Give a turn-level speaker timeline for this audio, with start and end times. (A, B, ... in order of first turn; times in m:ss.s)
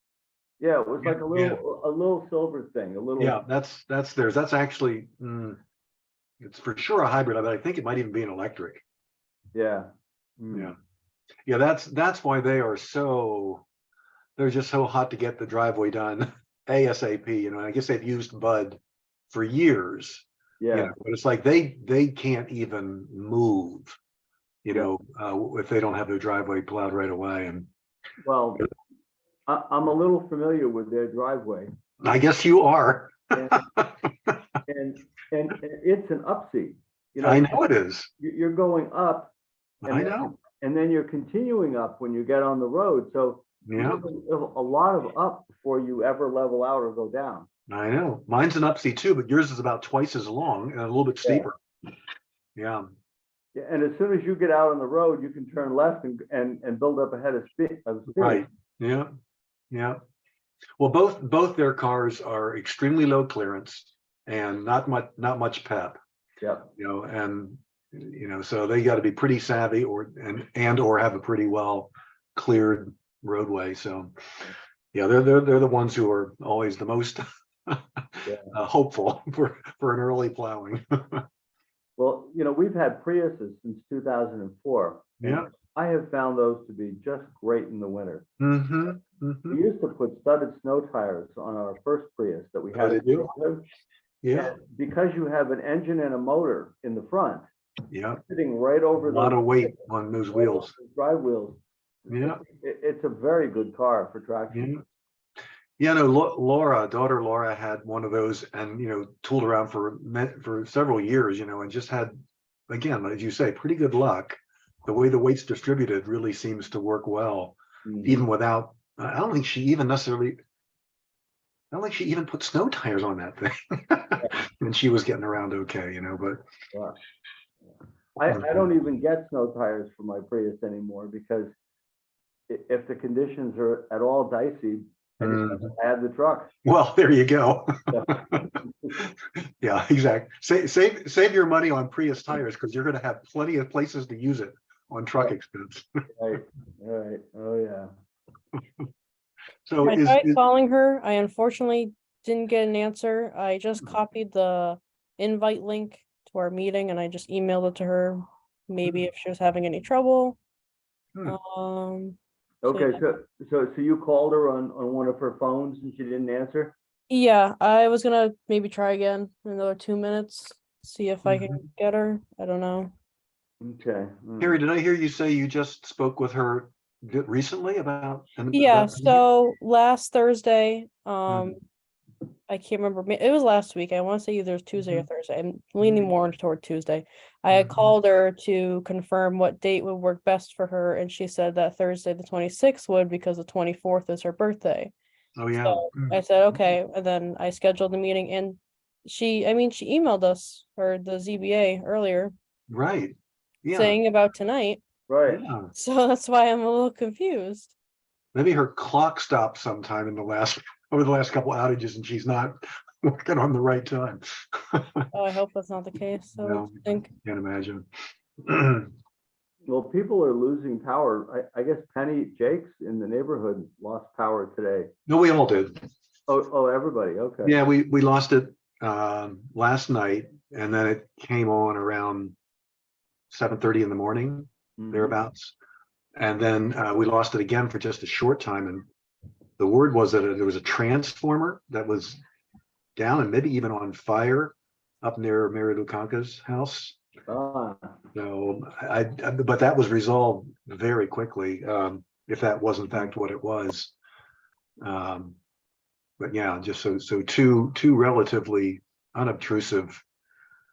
0:00.6-0:03.4 A
0:01.0-0:01.6 B
0:03.2-0:05.6 B
0:06.4-0:08.8 B
0:09.5-0:10.7 A
0:11.5-0:13.6 B
0:14.4-0:18.8 B
0:19.3-0:24.0 B
0:20.6-0:20.9 A
0:24.6-0:27.7 B
0:28.2-0:28.7 A
0:29.5-0:31.7 A
0:32.0-0:34.4 B
0:33.3-0:33.6 A
0:34.7-0:37.6 A
0:37.2-0:38.1 B
0:38.2-0:39.3 A
0:39.8-0:40.3 B
0:39.9-0:47.5 A
0:43.7-0:44.0 B
0:47.7-0:51.6 B
0:51.2-0:51.5 A
0:52.6-0:52.9 B
0:53.5-0:58.5 A
0:58.2-0:59.1 B
0:59.7-1:00.0 B
1:00.8-1:06.0 B
1:06.4-1:06.7 A
1:06.8-1:14.2 B
1:14.9-1:21.2 B
1:18.2-1:18.5 A
1:22.0-1:28.2 A
1:25.2-1:25.5 B
1:28.4-1:29.6 B
1:29.5-1:33.6 A
1:32.7-1:33.3 B
1:34.2-1:34.5 B
1:34.3-1:37.4 A
1:37.9-1:38.2 B
1:38.3-1:44.8 A
1:39.0-1:40.7 B
1:42.1-1:42.4 B
1:44.5-1:44.8 B
1:45.8-2:00.4 B
1:57.8-1:58.2 A
2:01.7-2:06.4 B
2:08.2-2:11.5 A
2:12.5-2:16.5 A
2:15.2-2:15.7 B
2:16.6-2:18.4 B
2:17.9-2:19.0 A
2:19.6-2:26.1 B
2:26.2-2:27.9 A
2:29.7-2:30.4 B
2:29.8-2:40.4 C
2:41.2-2:42.2 C
2:42.6-2:46.8 A
2:42.7-2:43.0 C
2:47.1-2:52.9 C
2:51.3-2:51.6 B
2:53.6-2:54.6 A
2:54.4-2:59.3 B
2:58.5-3:01.6 C
3:01.3-3:01.6 B
3:02.5-3:14.9 C
3:07.5-3:07.9 B
3:15.4-3:16.2 B
3:15.6-3:22.3 C
3:22.7-3:24.0 B
3:23.7-3:24.8 C
3:25.1-3:25.4 A
3:25.3-3:25.7 B
3:25.7-3:27.7 C
3:28.3-3:35.1 B
3:35.1-3:37.1 C
3:36.4-3:37.9 B
3:38.4-3:38.9 B
3:39.7-3:44.9 A
3:45.1-3:45.8 B
3:46.3-3:47.6 A
3:47.4-3:52.4 B
3:53.3-3:55.6 B
3:54.8-3:55.2 A
3:56.2-3:58.8 B
3:59.6-4:02.2 B
4:03.0-4:07.0 B
4:07.3-4:07.9 A
4:08.1-4:14.0 B
4:14.8-4:15.4 B
4:16.2-4:20.0 B